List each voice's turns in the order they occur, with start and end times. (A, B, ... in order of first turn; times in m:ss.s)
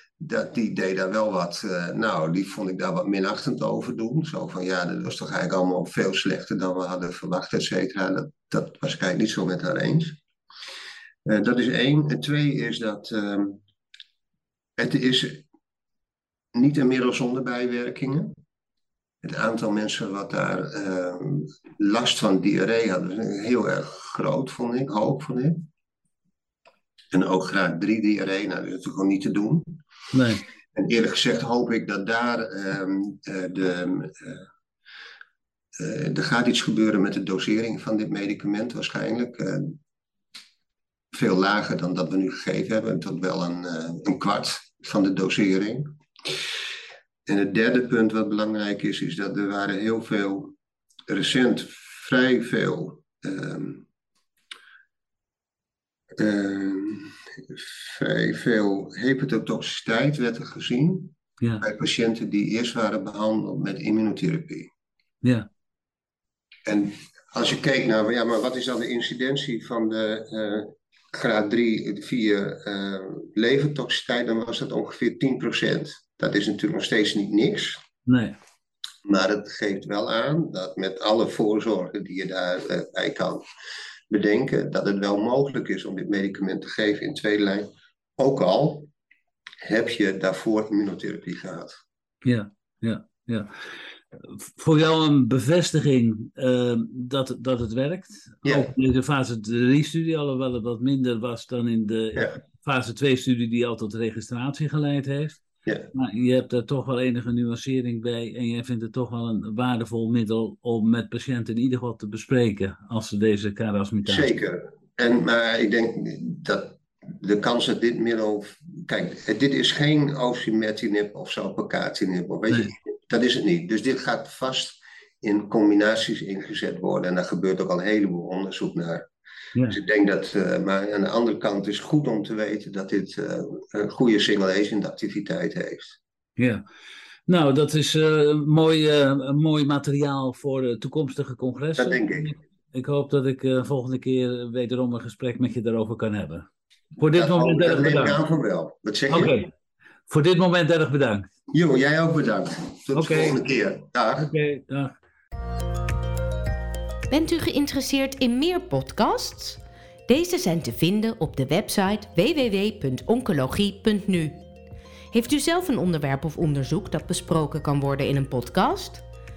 0:00.2-0:10.2 A
0:11.3-0:13.6 A
0:14.8-0:15.4 A
0:16.6-0:18.3 A
0:19.2-0:25.6 A
0:27.1-0:29.8 A
0:30.1-0:30.4 B
0:30.8-0:34.5 A
0:35.8-0:39.8 A
0:41.1-0:45.9 A
0:47.3-0:50.5 A
0:51.1-0:53.8 A
0:56.2-1:04.7 A
1:06.7-1:17.8 A
1:18.1-1:18.4 B
1:19.0-1:23.4 A
1:24.1-1:27.7 A
1:28.2-1:28.9 A
1:29.6-1:31.8 A
1:32.2-1:33.5 B
1:34.2-1:45.4 B
1:38.4-1:38.7 A
1:45.9-1:54.3 B
1:54.1-2:09.0 A
2:09.7-2:16.0 A
2:16.4-2:16.6 B
2:17.3-2:26.5 B
2:21.8-2:22.4 A
2:27.0-2:28.2 B
2:27.1-2:29.4 A
2:29.1-2:29.5 B
2:30.1-2:31.3 B
2:31.5-2:34.3 A
2:33.0-2:33.4 B
2:34.2-2:35.0 B
2:37.1-2:44.4 C
2:45.1-2:49.0 C